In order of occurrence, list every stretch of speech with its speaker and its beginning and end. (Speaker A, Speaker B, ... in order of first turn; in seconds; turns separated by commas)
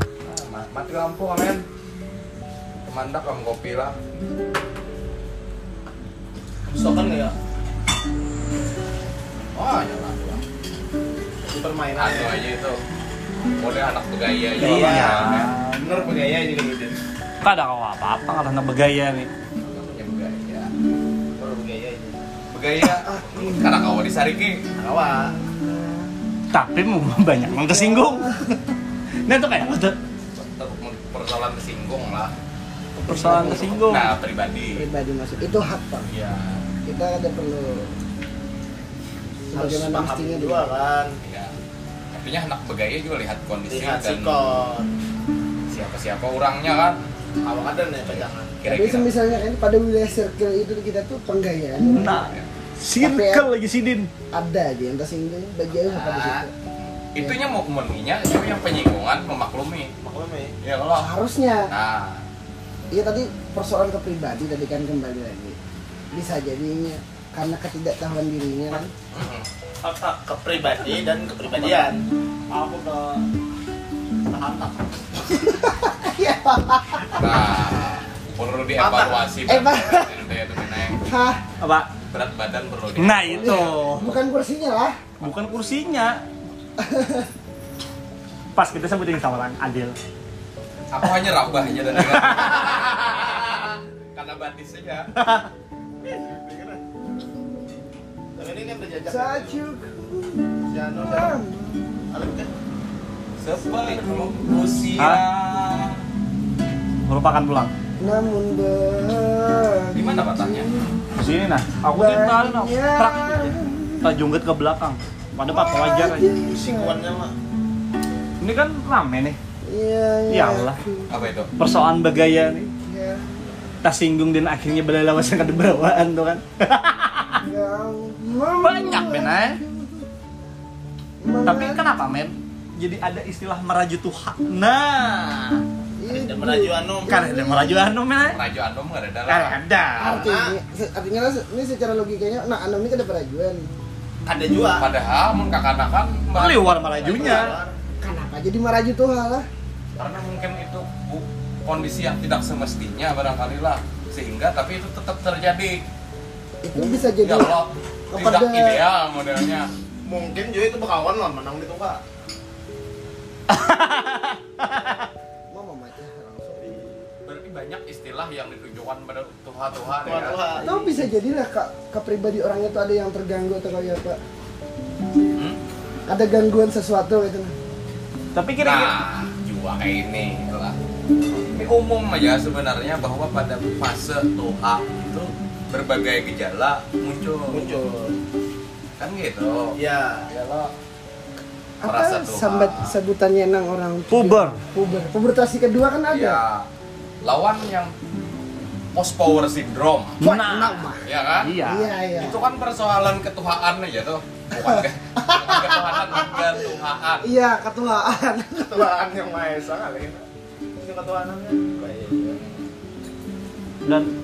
Speaker A: 0.2-1.6, Speaker A: 2.9-4.0, Speaker B: 6.7-7.3, Speaker A: 9.5-10.4, Speaker B: 11.4-12.4, Speaker A: 11.9-12.7, Speaker A: 13.6-15.5, Speaker B: 14.6-17.0, Speaker C: 14.6-16.2, Speaker C: 17.4-19.3, Speaker A: 19.6-20.7, Speaker B: 21.4-22.2, Speaker A: 22.5-24.6, Speaker D: 23.0-23.9, Speaker B: 24.8-25.3, Speaker D: 25.3-26.1, Speaker C: 26.5-28.6, Speaker D: 27.5-28.4, Speaker C: 29.2-29.9, Speaker A: 30.3-32.3, Speaker C: 33.0-34.1, Speaker D: 33.0-33.9, Speaker A: 33.2-34.9, Speaker D: 34.7-36.1, Speaker A: 36.1-36.6, Speaker D: 36.9-37.9, Speaker D: 39.5-40.8, Speaker B: 39.5-41.1, Speaker A: 41.2-41.5, Speaker A: 42.1-44.3, Speaker B: 43.7-44.9, Speaker A: 45.7-47.0, Speaker B: 47.4-48.6, Speaker A: 48.0-49.1, Speaker D: 48.6-52.2, Speaker C: 51.8-54.1, Speaker D: 53.0-53.5, Speaker D: 54.3-56.5, Speaker A: 55.8-59.9, Speaker B: 60.0-60.5, Speaker A: 60.6-61.1, Speaker D: 61.0-61.7, Speaker A: 61.7-62.2, Speaker D: 62.9-65.6, Speaker D: 66.1-68.9, Speaker A: 69.1-69.5, Speaker C: 69.8-71.0, Speaker B: 70.1-72.0, Speaker C: 72.5-73.2, Speaker C: 74.3-74.8, Speaker D: 75.3-77.4, Speaker A: 77.2-81.1, Speaker B: 78.8-79.3, Speaker D: 79.5-80.1, Speaker D: 80.9-81.4, Speaker C: 81.6-81.9, Speaker A: 82.1-83.8, Speaker C: 83.0-84.1, Speaker D: 83.3-85.0, Speaker C: 85.2-86.2, Speaker A: 85.2-85.5, Speaker D: 86.8-87.3, Speaker C: 88.5-90.0, Speaker A: 90.9-95.1, Speaker C: 92.0-92.5, Speaker C: 95.1-95.5, Speaker B: 96.0-96.8, Speaker B: 98.3-99.6, Speaker D: 99.0-102.0, Speaker B: 100.7-101.4, Speaker B: 102.1-102.5, Speaker A: 103.4-106.0, Speaker D: 103.6-104.5, Speaker C: 105.0-105.2, Speaker C: 107.0-107.7, Speaker D: 108.0-110.9, Speaker A: 109.9-110.7, Speaker C: 111.2-116.3, Speaker D: 111.9-114.1, Speaker D: 115.5-117.0, Speaker B: 116.5-117.3, Speaker C: 118.4-119.4, Speaker D: 119.6-121.1, Speaker C: 120.3-120.8, Speaker A: 121.1-121.5, Speaker C: 121.6-122.7, Speaker D: 122.8-123.6, Speaker C: 123.8-127.4, Speaker D: 127.4-130.1, Speaker C: 128.6-129.6, Speaker D: 131.2-131.8, Speaker C: 131.4-135.6, Speaker D: 136.0-137.9, Speaker B: 136.1-137.1, Speaker C: 137.0-138.4, Speaker A: 138.3-139.6, Speaker C: 139.3-140.2, Speaker B: 140.0-140.6, Speaker D: 140.0-143.7, Speaker B: 144.2-144.9, Speaker A: 144.8-147.5, Speaker C: 146.3-147.5, Speaker B: 146.9-147.7, Speaker D: 148.0-149.4, Speaker A: 150.0-155.8, Speaker D: 156.6-157.6, Speaker A: 157.2-159.7, Speaker D: 158.1-158.8, Speaker B: 160.1-162.0, Speaker C: 163.5-165.0, Speaker D: 165.5-166.9, Speaker A: 167.2-170.4, Speaker B: 170.0-170.7, Speaker D: 170.6-174.2, Speaker D: 176.1-177.5, Speaker C: 178.3-178.9, Speaker A: 178.6-180.8, Speaker A: 181.3-187.6, Speaker B: 187.5-188.1, Speaker A: 189.0-189.7, Speaker B: 189.8-190.3, Speaker A: 190.3-190.7, Speaker D: 191.8-196.4, Speaker A: 191.8-192.9, Speaker C: 194.1-194.6, Speaker A: 196.1-196.6, Speaker A: 197.2-197.9, Speaker A: 198.9-200.2, Speaker C: 200.2-200.8, Speaker D: 200.2-201.0, Speaker A: 201.0-201.5, Speaker C: 201.4-201.9, Speaker D: 201.6-202.4, Speaker A: 202.2-207.3, Speaker D: 204.6-206.7, Speaker D: 207.2-208.8, Speaker B: 208.6-210.2, Speaker B: 210.8-212.3, Speaker A: 212.3-212.7, Speaker C: 213.8-214.1